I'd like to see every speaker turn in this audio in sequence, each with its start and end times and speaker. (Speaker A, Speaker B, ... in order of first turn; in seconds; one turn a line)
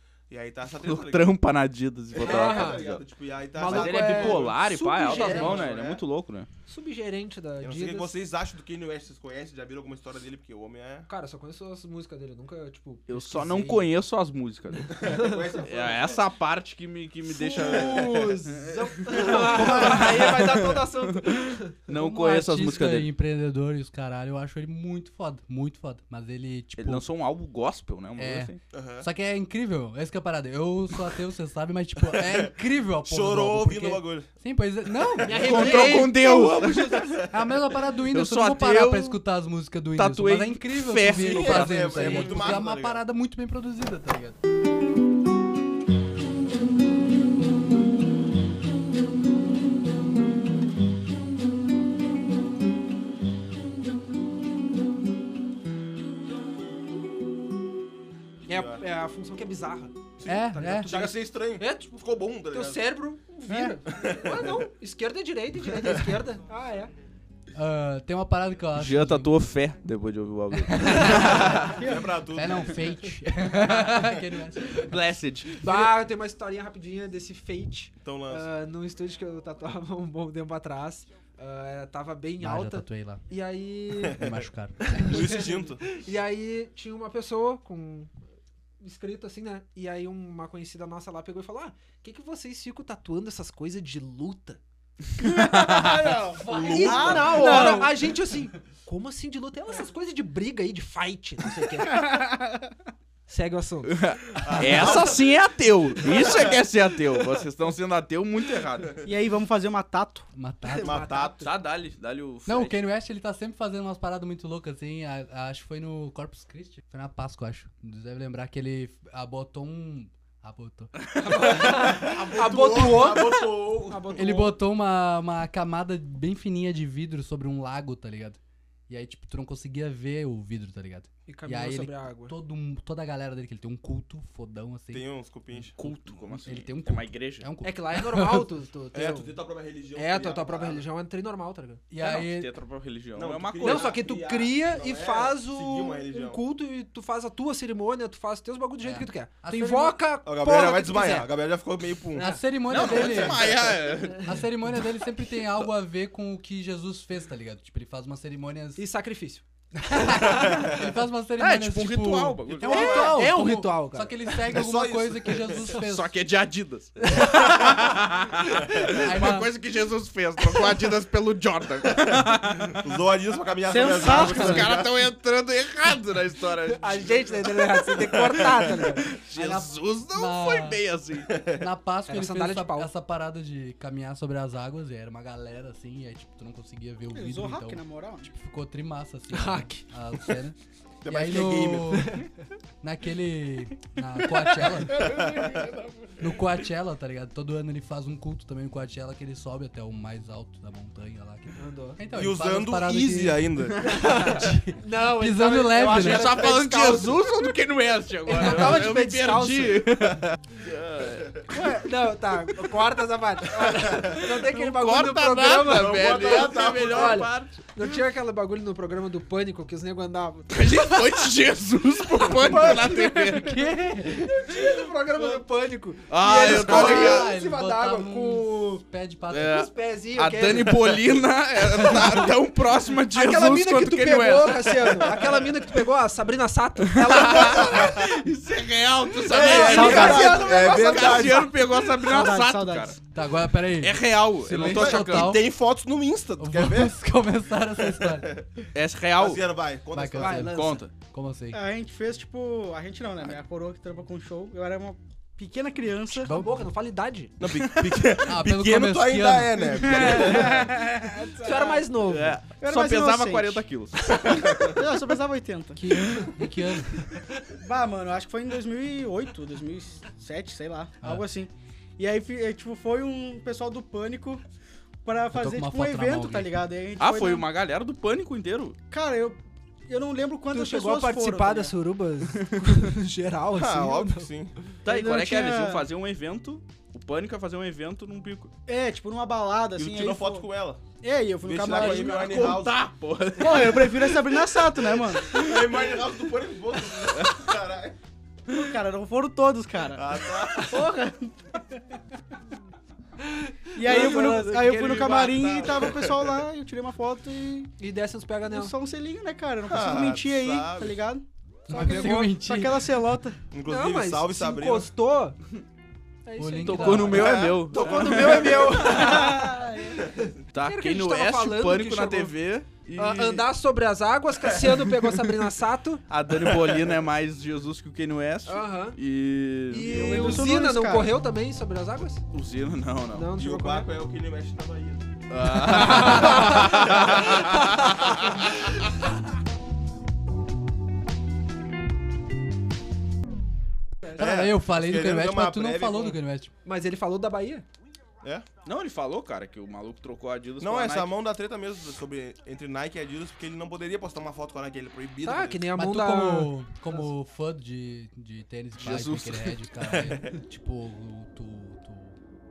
Speaker A: 0.3-1.4
Speaker B: 0.7-3.0
Speaker A: 2.1-6.0
Speaker C: 2.1-2.9
Speaker C: 3.5-5.8
Speaker B: 3.6-6.5
Speaker C: 6.7-8.2
Speaker A: 7.6-11.1
Speaker C: 11.1-13.9
Speaker B: 13.1-15.1
Speaker C: 14.8-15.6
Speaker A: 14.9-16.2
Speaker B: 15.6-23.1
Speaker C: 17.3-21.8
Speaker A: 17.5-18.3
Speaker A: 19.2-19.9
Speaker D: 21.9-27.1
Speaker B: 26.8-28.6
Speaker D: 28.2-36.0
Speaker A: 28.7-29.1
Speaker A: 32.1-34.3
Speaker C: 35.2-36.8
Speaker B: 35.3-37.3
Speaker D: 37.1-44.4
Speaker B: 38.1-39.2
Speaker B: 39.9-42.6
Speaker A: 41.0-43.0
Speaker C: 58.5-66.9
Speaker A: 58.5-58.8
Speaker A: 60.2-62.9
Speaker D: 60.2-61.0
Speaker A: 63.9-64.7
Speaker D: 67.5-69.4
Speaker B: 68.7-71.8
Speaker D: 70.5-75.0
Speaker A: 71.2-73.0
Speaker E: 71.8-72.1
Speaker B: 74.8-75.9
Speaker C: 75.6-84.3
Speaker A: 78.0-78.5
Speaker D: 82.4-83.2
Speaker D: 84.0-85.4
Speaker C: 84.8-88.1
Speaker A: 85.0-85.9
Speaker C: 88.8-94.6
Speaker E: 95.2-98.1
Speaker B: 95.2-96.1
Speaker A: 95.9-97.6
Speaker D: 96.3-97.9
Speaker C: 96.4-102.2
Speaker E: 101.9-102.7
Speaker C: 103.3-105.1
Speaker B: 103.8-109.0
Speaker A: 104.4-105.3
Speaker A: 106.1-106.5
Speaker E: 109.0-110.3
Speaker D: 110.3-111.1
Speaker C: 110.7-111.5
Speaker A: 110.8-111.5
Speaker B: 111.4-112.8
Speaker D: 112.5-121.0
Speaker B: 121.1-121.5
Speaker C: 121.2-124.5
Speaker A: 121.5-124.4
Speaker D: 124.2-138.5
Speaker C: 131.3-132.3
Speaker A: 134.9-135.7
Speaker B: 135.8-137.5
Speaker C: 137.6-139.4
Speaker A: 138.9-140.8
Speaker C: 139.9-141.8
Speaker D: 141.9-142.5
Speaker B: 142.0-144.0
Speaker A: 143.1-146.4
Speaker C: 143.6-151.3
Speaker D: 148.8-150.0
Speaker A: 150.2-153.7
Speaker C: 152.2-152.4
Speaker D: 152.2-158.8
Speaker B: 152.7-154.4
Speaker C: 158.8-160.5
Speaker D: 159.8-166.1
Speaker A: 160.4-160.9
Speaker B: 161.4-163.2
Speaker C: 162.6-164.3
Speaker A: 164.5-165.8
Speaker B: 165.7-172.8
Speaker C: 167.1-167.5
Speaker D: 168.8-169.5
Speaker A: 172.7-174.9
Speaker E: 173.7-174.8
Speaker B: 173.9-177.4
Speaker C: 176.7-179.1
Speaker A: 178.1-178.4
Speaker B: 178.9-181.4
Speaker D: 179.2-180.8
Speaker A: 181.3-181.6
Speaker D: 181.4-192.2
Speaker C: 182.1-182.9
Speaker E: 187.1-188.3
Speaker C: 189.3-190.3
Speaker A: 191.0-192.1
Speaker C: 191.9-192.3
Speaker D: 192.8-195.2
Speaker A: 195.0-195.9
Speaker D: 196.2-206.4
Speaker C: 201.6-202.0
Speaker A: 202.1-203.8
Speaker C: 203.8-207.3
Speaker B: 205.9-211.4
Speaker C: 208.2-209.8
Speaker C: 211.5-221.2
Speaker B: 214.3-217.7
Speaker A: 215.6-217.3
Speaker B: 220.5-223.6
Speaker C: 222.2-223.4
Speaker D: 222.8-224.4
Speaker C: 224.0-228.8
Speaker B: 226.1-227.3
Speaker D: 226.4-229.7
Speaker B: 229.3-235.2
Speaker C: 229.4-231.2
Speaker C: 231.8-232.3
Speaker C: 233.0-238.2
Speaker B: 236.9-243.0
Speaker A: 239.2-241.6
Speaker C: 239.2-241.5
Speaker E: 239.4-240.7
Speaker E: 241.7-243.0
Speaker D: 243.1-245.5
Speaker B: 243.8-245.4
Speaker A: 244.6-247.0
Speaker D: 246.4-248.4
Speaker A: 247.9-248.4
Speaker B: 248.7-249.4
Speaker A: 249.2-250.5
Speaker D: 249.9-251.6
Speaker C: 250.2-250.8
Speaker B: 250.5-250.9
Speaker E: 251.5-256.4
Speaker D: 256.1-256.6
Speaker C: 256.3-257.3
Speaker A: 257.4-261.8
Speaker B: 257.6-258.0
Speaker D: 258.1-260.7
Speaker E: 260.3-261.8
Speaker C: 261.4-262.4
Speaker B: 262.0-264.7
Speaker E: 262.6-266.3
Speaker A: 264.4-264.7
Speaker C: 265.8-266.8
Speaker D: 265.9-267.1
Speaker E: 267.6-274.4
Speaker E: 275.0-277.5
Speaker D: 275.3-276.5
Speaker B: 277.0-278.8
Speaker E: 278.9-281.8
Speaker C: 280.5-284.3
Speaker A: 283.5-284.7
Speaker B: 284.8-288.5
Speaker E: 284.8-285.9
Speaker E: 288.7-290.5
Speaker A: 289.7-290.8
Speaker E: 291.0-292.6
Speaker A: 291.4-292.8
Speaker B: 291.7-295.9
Speaker E: 293.4-295.4
Speaker A: 295.3-298.0
Speaker B: 297.1-297.5
Speaker E: 298.5-301.8
Speaker A: 299.9-300.9
Speaker C: 303.2-305.6
Speaker E: 303.7-307.7
Speaker B: 303.9-304.4
Speaker A: 304.9-306.4
Speaker B: 305.0-305.5
Speaker C: 307.8-308.7
Speaker E: 308.5-313.4
Speaker A: 309.6-311.0
Speaker D: 311.7-313.0
Speaker C: 311.7-312.3
Speaker A: 313.5-314.9
Speaker C: 313.7-315.4
Speaker C: 316.2-322.4
Speaker D: 316.4-317.4
Speaker B: 316.6-319.4
Speaker A: 317.2-318.5
Speaker E: 318.7-320.1
Speaker B: 320.5-323.5
Speaker C: 322.9-326.0
Speaker B: 324.7-325.2
Speaker B: 326.1-330.0
Speaker A: 326.4-326.8
Speaker C: 328.5-329.0
Speaker C: 329.7-332.2
Speaker E: 329.8-331.2
Speaker B: 332.3-333.3
Speaker C: 333.1-333.9
Speaker A: 333.3-335.1
Speaker B: 335.3-338.8
Speaker C: 335.7-337.4
Speaker A: 336.4-337.4
Speaker A: 344.2-346.2
Speaker D: 344.2-346.5
Speaker C: 346.6-347.6
Speaker B: 348.6-351.1
Speaker A: 350.6-355.7
Speaker C: 355.2-357.1
Speaker D: 355.7-362.2
Speaker B: 358.8-359.6
Speaker A: 359.8-360.4